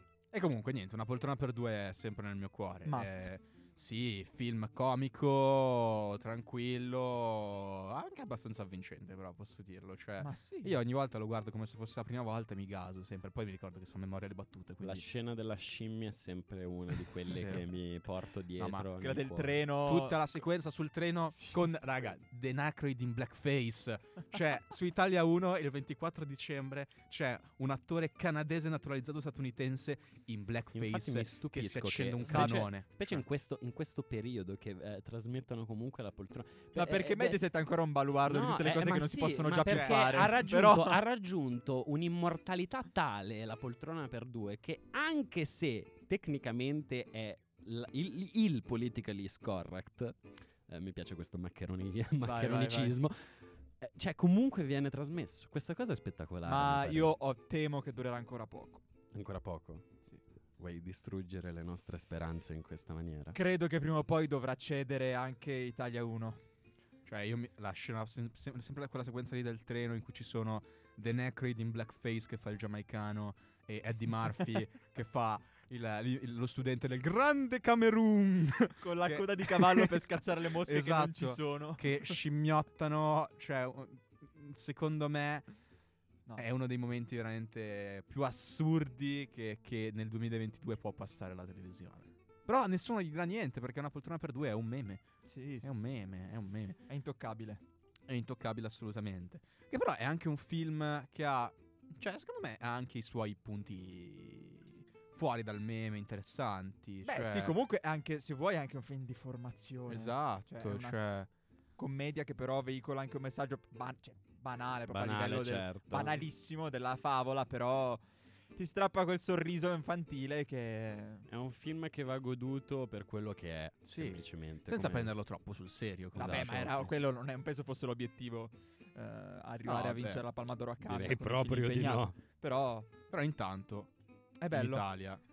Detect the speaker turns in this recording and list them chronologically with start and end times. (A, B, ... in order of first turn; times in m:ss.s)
0:00.3-0:15.1 A
0:02.8-0:03.3 B
0:10.2-0:10.8 B
0:14.8-0:19.6 C
0:17.2-0:17.6 A
0:18.6-0:18.9 A
0:19.0-0:20.2 B
0:19.8-0:33.2 A
0:30.7-0:37.5 C
0:32.2-0:32.7 B
0:36.8-0:41.0 B
0:38.3-0:57.2 C
0:39.7-0:40.2 A
0:52.2-0:53.0 B
0:56.4-0:58.8 B
0:59.1-1:00.0 C
1:00.6-1:03.4 C
1:03.3-1:06.4 B
1:07.0-1:25.5 A
1:18.8-1:22.2 B
1:26.4-1:35.0 A
1:35.2-1:35.9 B
1:35.6-1:36.8 A
1:36.9-1:37.6 B
1:38.1-1:47.6 A
1:47.0-1:51.0 B
1:49.9-1:51.3 A
1:51.8-2:01.3 B
1:54.9-1:56.2 C
2:01.3-2:05.1 C
2:03.9-2:06.8 A
2:06.1-2:06.9 C
2:06.2-2:12.9 B
2:09.6-2:10.3 A
2:10.8-2:12.1 C
2:13.1-2:13.9 A
2:14.4-2:14.9 B
2:14.5-2:15.2 A